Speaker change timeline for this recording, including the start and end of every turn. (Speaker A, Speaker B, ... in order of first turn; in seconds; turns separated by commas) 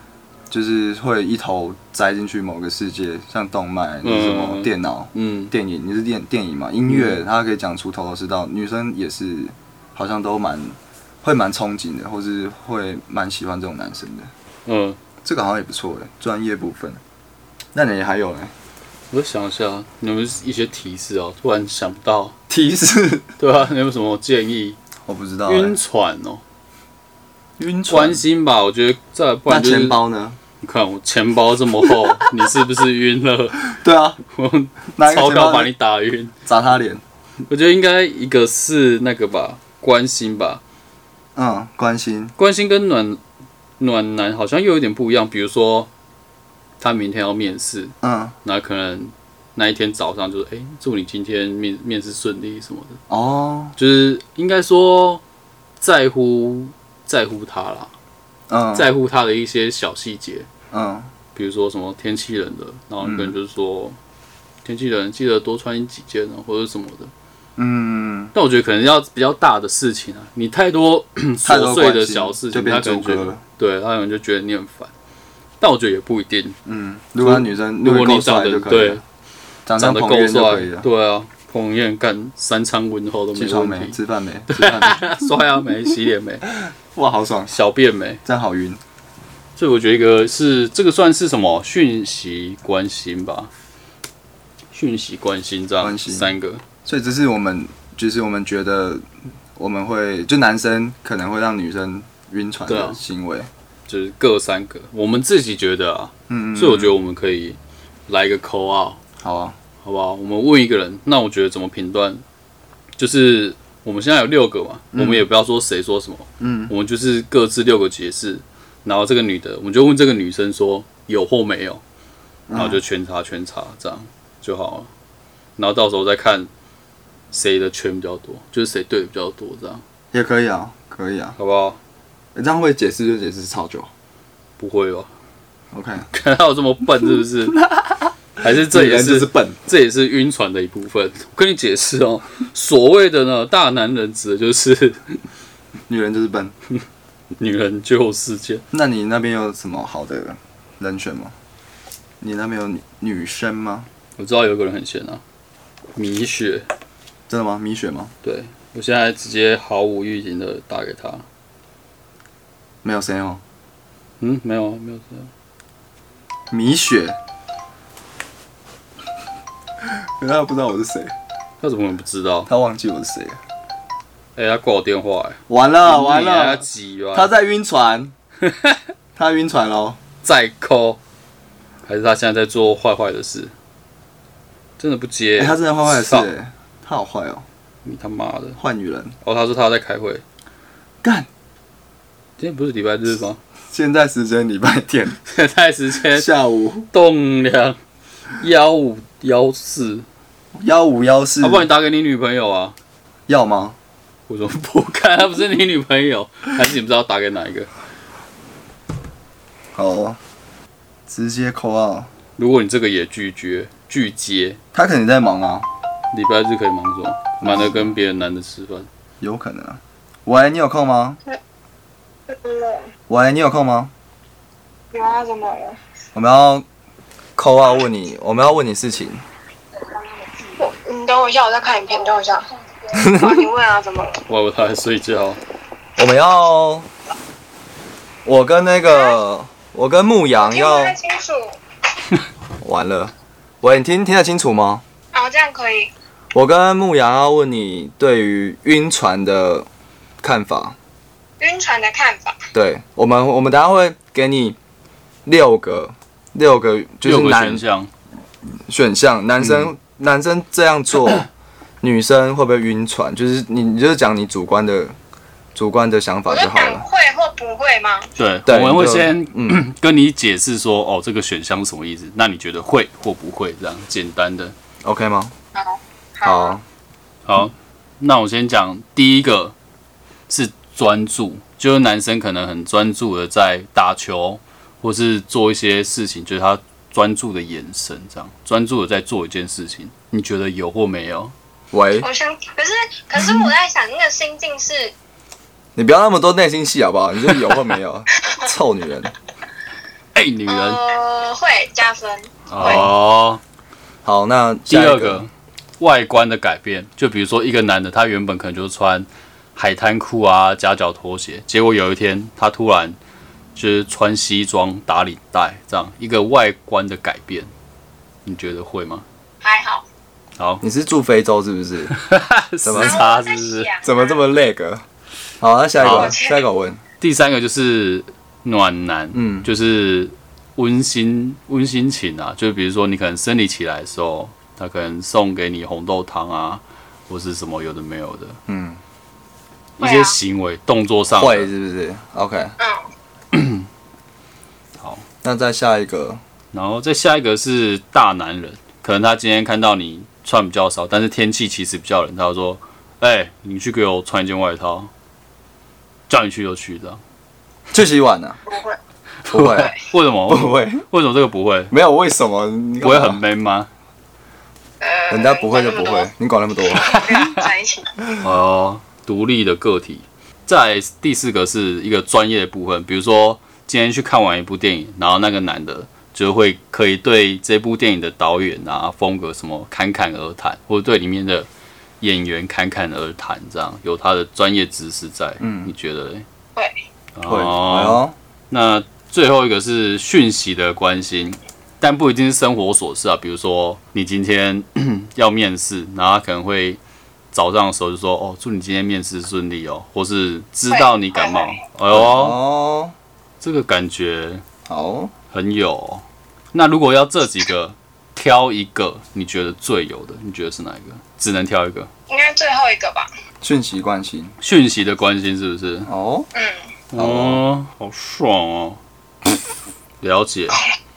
Speaker A: 0.5-14.3, Speaker B: 4.0-5.5, Speaker B: 6.9-7.2, Speaker B: 14.7-15.0, Speaker A: 15.2-17.0, Speaker A: 17.7-18.5, Speaker B: 19.1-22.4, Speaker A: 22.5-23.3, Speaker B: 23.4-24.8, Speaker A: 25.1-25.8, Speaker B: 25.4-26.4, Speaker A: 27.6-28.2, Speaker B: 27.9-30.0, Speaker A: 29.5-30.4, Speaker B: 30.6-33.7, Speaker A: 31.9-32.2, Speaker A: 33.6-34.2, Speaker B: 34.2-36.3, Speaker A: 35.0-35.7, Speaker A: 36.4-37.0, Speaker B: 37.5-40.6, Speaker A: 41.4-42.3, Speaker B: 42.4-43.2, Speaker B: 43.8-45.9, Speaker B: 46.8-53.0, Speaker A: 48.0-48.4, Speaker A: 53.1-53.8, Speaker B: 53.8-55.2, Speaker B: 55.8-57.9, Speaker A: 58.5-58.9, Speaker B: 58.7-60.5, Speaker A: 60.7-61.1, Speaker B: 61.4-64.0, Speaker A: 63.0-63.3, Speaker B: 64.6-67.1, Speaker A: 67.6-68.3, Speaker B: 68.3-74.9, Speaker A: 71.4-73.4, Speaker B: 75.6-76.6, Speaker A: 76.7-79.0, Speaker B: 77.2-79.0, Speaker A: 79.7-80.9, Speaker B: 79.8-84.0, Speaker A: 83.3-85.3, Speaker B: 84.5-86.4, Speaker A: 86.6-87.5, Speaker B: 87.5-88.2, Speaker A: 88.2-88.8, Speaker B: 89.6-93.5, Speaker B: 94.7-96.6, Speaker A: 95.8-96.3, Speaker A: 96.8-99.0, Speaker A: 99.6-103.5, Speaker B: 102.7-103.0, Speaker B: 103.9-109.0, Speaker A: 106.3-106.9, Speaker A: 109.2-109.6, Speaker B: 109.8-112.2, Speaker B: 113.0-121.8, Speaker A: 114.9-115.2, Speaker A: 116.4-116.7, Speaker A: 122.5-122.8, Speaker B: 122.5-124.9, Speaker B: 125.6-126.5, Speaker B: 127.3-129.8, Speaker A: 130.1-131.4, Speaker B: 131.4-131.8, Speaker A: 132.3-133.9, Speaker B: 134.6-135.1, Speaker A: 135.7-136.1, Speaker B: 136.1-137.6, Speaker A: 137.5-139.6, Speaker B: 138.4-145.2, Speaker A: 145.9-146.5, Speaker B: 147.4-148.6, Speaker A: 148.7-151.3, Speaker A: 152.2-153.9, Speaker B: 154.2-155.2, Speaker B: 155.9-156.7, Speaker A: 157.3-158.1, Speaker B: 158.2-161.2, Speaker A: 162.8-163.4, Speaker B: 164.2-165.3, Speaker A: 166.5-167.2, Speaker A: 169.8-171.1, Speaker B: 171.6-172.5, Speaker A: 172.5-173.4, Speaker B: 174.4-177.3, Speaker A: 175.5-176.6, Speaker A: 177.1-178.1, Speaker B: 178.4-178.8, Speaker A: 179.2-180.0, Speaker B: 180.2-181.0, Speaker B: 181.9-183.5, Speaker B: 184.8-186.3, Speaker A: 185.4-187.4, Speaker B: 187.8-188.6, Speaker A: 188.6-189.1, Speaker B: 189.2-190.2, Speaker A: 191.0-191.3, Speaker B: 192.4-193.4, Speaker A: 193.7-195.2, Speaker B: 195.2-196.3, Speaker A: 196.1-196.9, Speaker B: 196.9-197.8, Speaker B: 198.4-200.1, Speaker A: 200.6-201.7, Speaker B: 201.4-202.8, Speaker A: 203.3-203.8, Speaker B: 204.3-207.7, Speaker A: 209.7-210.2, Speaker A: 211.1-212.1, Speaker B: 212.4-214.6, Speaker A: 214.7-215.7, Speaker B: 216.1-218.9, Speaker A: 217.4-217.9, Speaker A: 219.2-221.2, Speaker C: 222.3-222.9, Speaker A: 223.1-223.9, Speaker C: 224.9-225.8, Speaker A: 226.1-226.7, Speaker A: 227.4-229.2, Speaker C: 230.4-234.2, Speaker A: 232.9-233.5, Speaker B: 234.3-235.4, Speaker A: 236.0-236.9, Speaker A: 238.2-240.9, Speaker C: 238.9-239.2, Speaker C: 240.4-241.6, Speaker A: 242.6-244.8, Speaker C: 245.1-245.9, Speaker A: 246.3-249.7, Speaker A: 250.2-250.8, Speaker C: 251.4-252.4, Speaker A: 252.5-254.6, Speaker A: 255.2-257.6, Speaker B: 257.0-257.9, Speaker A: 258.7-261.3, Speaker B: 259.4-259.7, Speaker A: 261.8-264.9, Speaker A: 265.6-266.9, Speaker C: 266.3-268.1, Speaker B: 268.2-274.6, Speaker A: 268.4-269.6, Speaker A: 274.8-275.3, Speaker C: 275.6-276.6, Speaker A: 276.2-276.6, Speaker B: 277.2-279.6, Speaker B: 280.3-291.3, Speaker A: 291.7-292.1, Speaker C: 292.0-294.9, Speaker A: 295.8-299.1, Speaker B: 300.1-300.8, Speaker C: 300.5-302.9, Speaker B: 302.5-303.4, Speaker A: 302.6-302.9, Speaker A: 304.1-305.2, Speaker B: 304.7-313.0, Speaker B: 313.6-317.5, Speaker B: 318.2-319.1, Speaker C: 319.4-319.9, Speaker B: 320.4-320.6, Speaker A: 320.6-321.9, Speaker B: 321.9-323.7, Speaker A: 322.6-323.0, Speaker C: 322.7-324.2, Speaker A: 323.8-324.8, Speaker A: 325.4-326.8, Speaker B: 325.8-326.1, Speaker C: 325.9-326.4, Speaker B: 327.0-338.4, Speaker A: 329.1-329.5, Speaker A: 338.5-338.8, Speaker C: 339.8-340.2, Speaker B: 339.8-341.5, Speaker A: 341.1-342.6, Speaker C: 342.6-342.9, Speaker B: 343.3-343.6, Speaker A: 345.2-346.2, Speaker B: 346.5-354.9, Speaker B: 356.1-357.0, Speaker A: 357.7-358.4, Speaker C: 358.5-358.8, Speaker B: 359.2-361.7, Speaker A: 359.3-359.7, Speaker A: 360.3-360.8, Speaker A: 361.7-363.2, Speaker B: 362.8-363.7, Speaker C: 364.8-366.1, Speaker A: 365.1-367.4, Speaker C: 366.6-367.9, Speaker B: 368.2-381.5, Speaker B: 382.0-386.2, Speaker A: 385.4-385.7, Speaker B: 387.1-396.8, Speaker A: 387.3-388.1, Speaker B: 397.3-402.4, Speaker C: 400.7-401.6, Speaker A: 401.9-402.9, Speaker B: 403.4-404.4, Speaker A: 404.6-405.1, Speaker B: 405.3-411.9, Speaker C: 412.1-413.1, Speaker A: 413.4-414.3, Speaker B: 414.4-415.9, Speaker A: 415.9-416.3, Speaker C: 416.4-416.6, Speaker B: 416.9-418.8, Speaker A: 416.9-417.4, Speaker B: 420.0-420.6